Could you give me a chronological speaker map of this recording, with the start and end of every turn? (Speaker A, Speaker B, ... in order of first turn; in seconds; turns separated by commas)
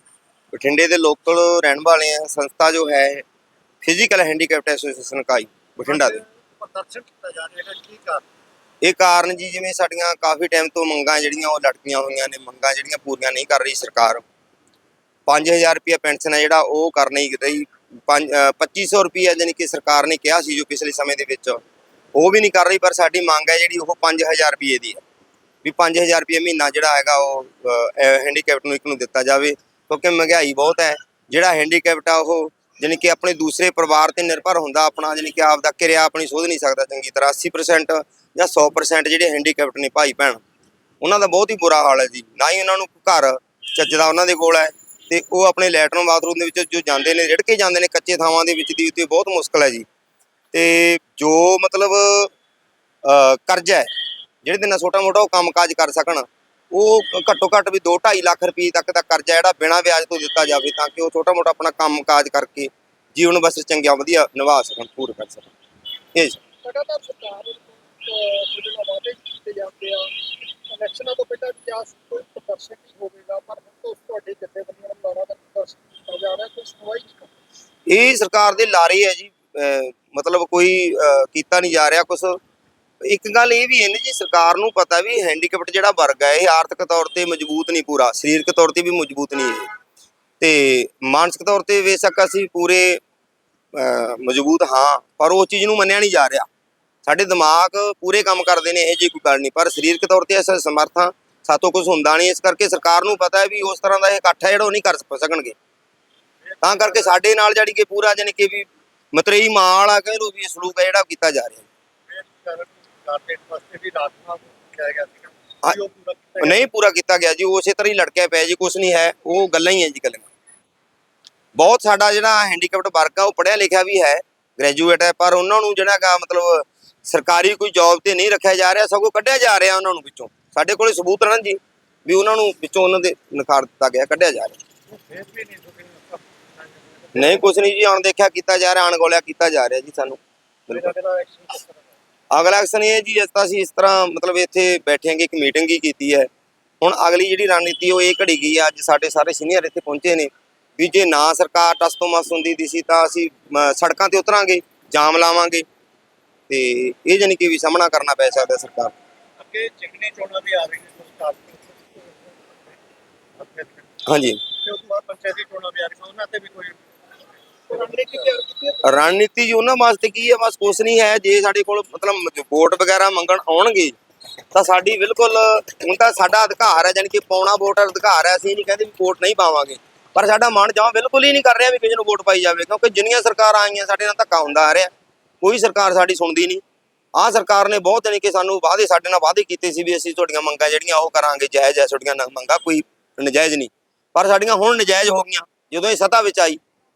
Speaker A: 0.5-3.2, Speaker A: 3.8-6.2, Speaker B: 5.9-8.2, Speaker A: 8.8-14.2, Speaker A: 15.3-21.6, Speaker A: 22.1-25.0, Speaker A: 25.6-40.4, Speaker A: 41.0-49.9, Speaker A: 50.5-52.3, Speaker A: 53.0-53.9, Speaker A: 54.4-65.5, Speaker A: 66.1-66.4, Speaker B: 66.6-77.3, Speaker A: 77.9-82.4, Speaker A: 83.0-89.7, Speaker A: 90.4-93.0, Speaker A: 93.7-96.5, Speaker A: 97.1-105.6, Speaker A: 106.6-111.7, Speaker B: 106.6-107.1, Speaker B: 112.1-116.6, Speaker A: 116.4-120.3, Speaker A: 121.5-134.6, Speaker B: 134.9-137.4, Speaker A: 137.1-140.9, Speaker B: 140.7-141.8, Speaker A: 142.3-146.3, Speaker A: 146.8-155.7, Speaker A: 156.5-158.9, Speaker B: 159.4-162.8, Speaker B: 163.4-163.9, Speaker A: 164.1-164.4, Speaker B: 164.6-166.8, Speaker B: 167.7-168.8, Speaker A: 168.8-174.0, Speaker A: 174.5-186.6, Speaker A: 187.2-196.6